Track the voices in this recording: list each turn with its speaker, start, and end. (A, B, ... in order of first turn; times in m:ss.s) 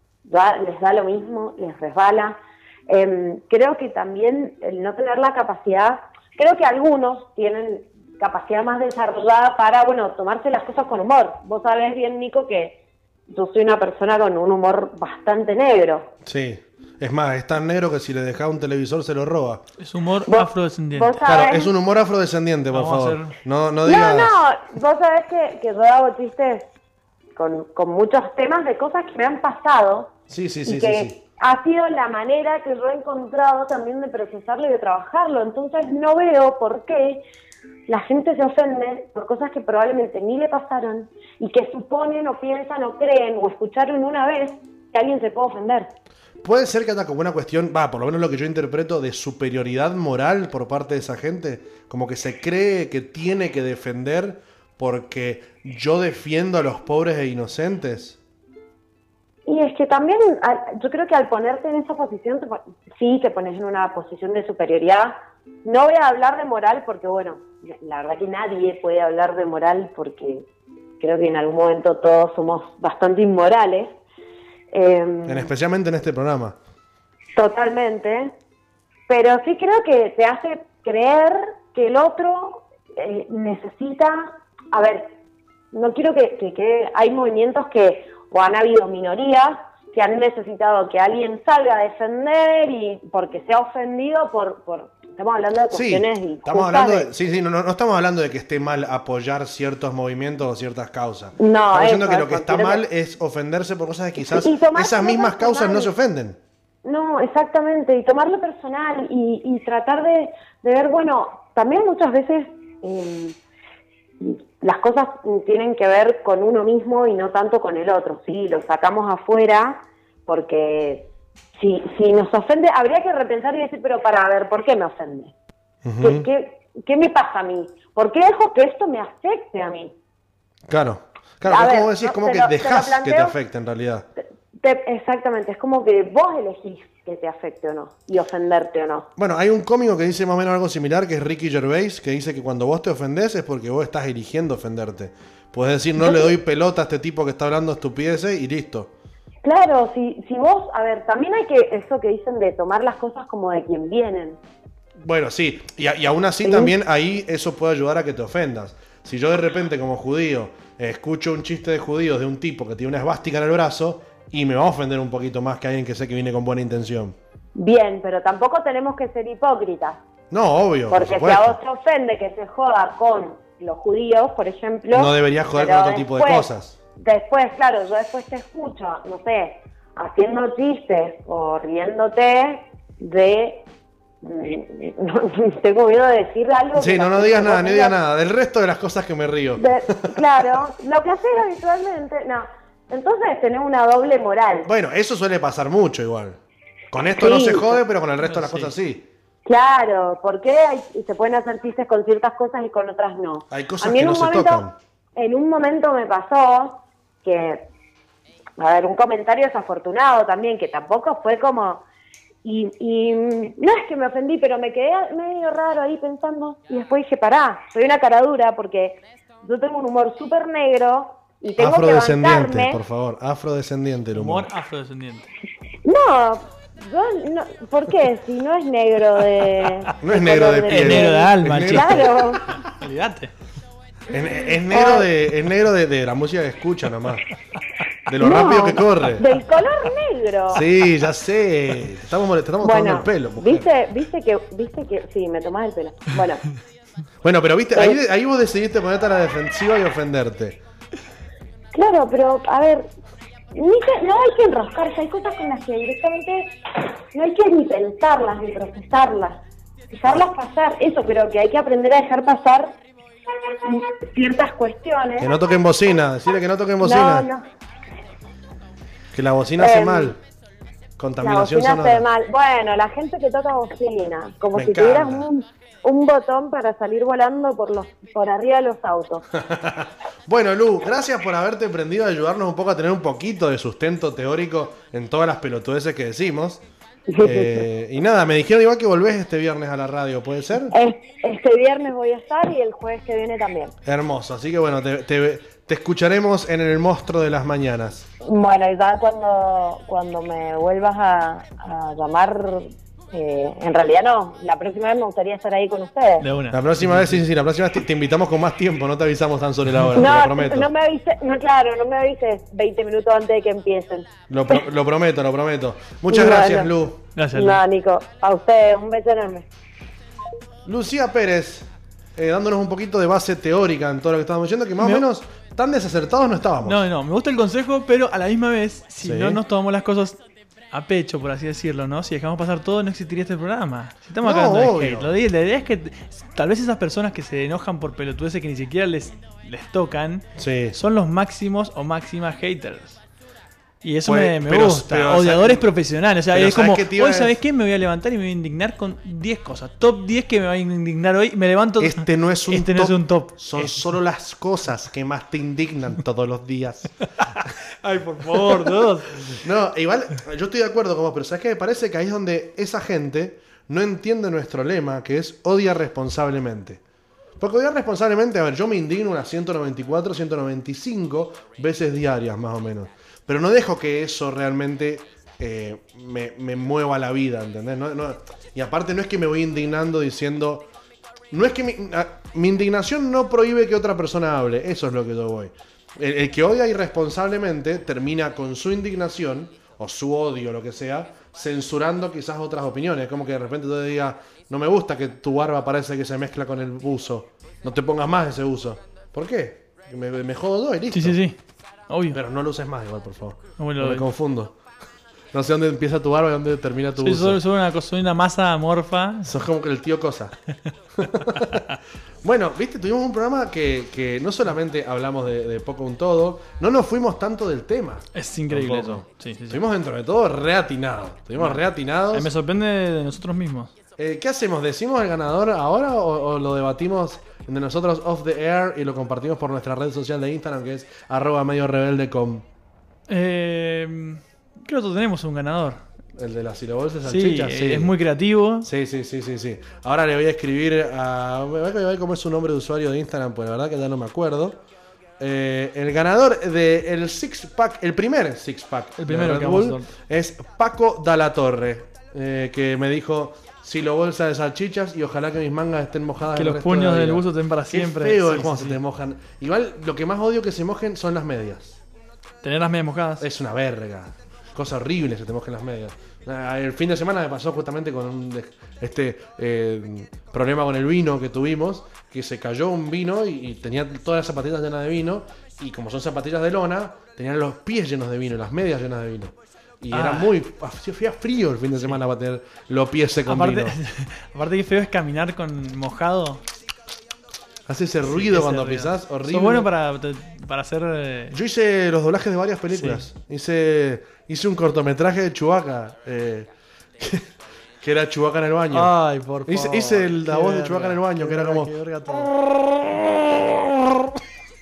0:00.2-0:16.1 A
0:16.2-0:19.6 B
0:19.8-0:21.2 C
0:20.2-0:21.8 A
0:21.2-0:24.3 B
0:22.7-0:23.4 C
0:23.8-0:26.7 A
0:27.4-0:37.2 A
0:30.3-0:31.2 B
0:37.9-0:45.9 A
0:46.4-0:58.2 B
0:59.5-1:10.5 A
1:11.0-1:14.0 A
1:14.7-1:15.5 A
1:15.3-1:16.6 B
1:17.4-1:18.3 A
1:19.1-1:25.2 A
1:25.7-1:37.1 A
1:35.7-1:46.4 B
1:41.4-1:42.9 A
1:44.2-1:46.0 A
1:46.8-1:53.4 A
1:54.2-2:05.3 A
2:05.8-2:06.3 B
2:06.0-2:10.0 A
2:10.7-2:14.1 B
2:11.4-2:13.4 A
2:14.5-2:19.1 A
2:19.2-2:28.9 B
2:26.0-2:26.3 A
2:29.4-2:34.4 A
2:35.0-2:47.2 B
2:36.4-2:36.8 A
2:47.6-2:50.0 A
2:50.3-2:51.6 B
2:50.9-3:03.7 A
2:54.9-2:56.8 B
3:04.2-3:08.0 A
3:06.8-3:10.4 B
3:09.6-3:14.7 A
3:14.6-3:16.4 B
3:16.9-3:19.1 B
3:17.0-3:17.8 A
3:18.2-3:18.8 C
3:19.4-3:27.7 A
3:23.5-3:24.8 B
3:28.6-3:31.8 A
3:32.4-3:42.8 A
3:41.6-3:44.5 B
3:44.1-3:45.3 C
3:45.8-3:52.5 A
3:50.0-3:52.6 B
3:50.7-3:53.3 C
3:54.1-3:57.3 B
3:54.7-3:55.1 A
3:58.1-3:59.4 B
3:58.2-4:00.7 A
4:00.5-4:03.7 B
4:02.6-4:06.4 A
4:07.2-4:10.6 B
4:11.7-4:12.9 A
4:13.5-4:16.5 A
4:17.1-4:22.8 A
4:23.6-4:25.3 A
4:25.2-4:27.3 B
4:26.8-4:27.4 A
4:29.1-4:30.2 B
4:29.6-4:30.2 A
4:31.0-4:32.1 B
4:31.2-4:39.2 A
4:34.5-4:35.3 B
4:39.3-4:46.6 B
4:47.1-4:47.7 A
4:47.2-4:50.7 B
4:50.7-4:53.7 A
4:53.8-4:58.1 B
4:58.2-5:06.3 A
5:06.2-5:07.2 C
5:06.5-5:10.7 B
5:09.7-5:10.0 C
5:10.0-5:14.6 A
5:14.3-5:17.0 B
5:16.1-5:16.8 A
5:17.2-5:17.6 C
5:17.3-5:19.5 A
5:20.6-5:26.9 B
5:24.8-5:25.1 C
5:26.6-5:30.2 C
5:29.0-5:29.4 B
5:30.7-5:43.0 C
5:34.2-5:35.1 B
5:40.4-5:40.8 B
5:43.8-5:53.8 C
5:44.0-5:45.7 B
5:46.3-5:47.4 B
5:51.8-5:56.9 B
5:57.3-5:59.4 C
5:58.2-5:58.8 B
5:59.3-6:06.8 B
6:07.4-6:20.7 B
6:21.3-6:41.2 B
6:40.9-6:41.4 C
6:41.9-6:42.2 C
6:42.1-6:44.6 B
6:43.6-6:44.1 C
6:45.3-6:47.4 B
6:47.0-6:49.3 C
6:49.2-6:50.4 B
6:50.9-6:51.6 B
6:52.2-7:02.3 B
6:58.1-6:59.6 C
7:01.4-7:03.7 C
7:04.0-7:12.4 B
7:13.1-7:15.8 C
7:16.2-7:18.0 B
7:17.0-7:18.7 C
7:18.6-7:24.6 B
7:25.2-7:41.8 B
7:29.0-7:29.9 C
7:36.3-7:38.8 C
7:42.4-7:43.3 C
7:43.2-8:03.8 B
7:59.9-8:00.4 C
8:03.3-8:06.4 C
8:07.7-8:09.7 B
8:08.0-8:11.4 C
8:11.3-8:16.5 B
8:12.7-8:13.0 C
8:17.0-8:23.7 B
8:18.7-8:22.3 C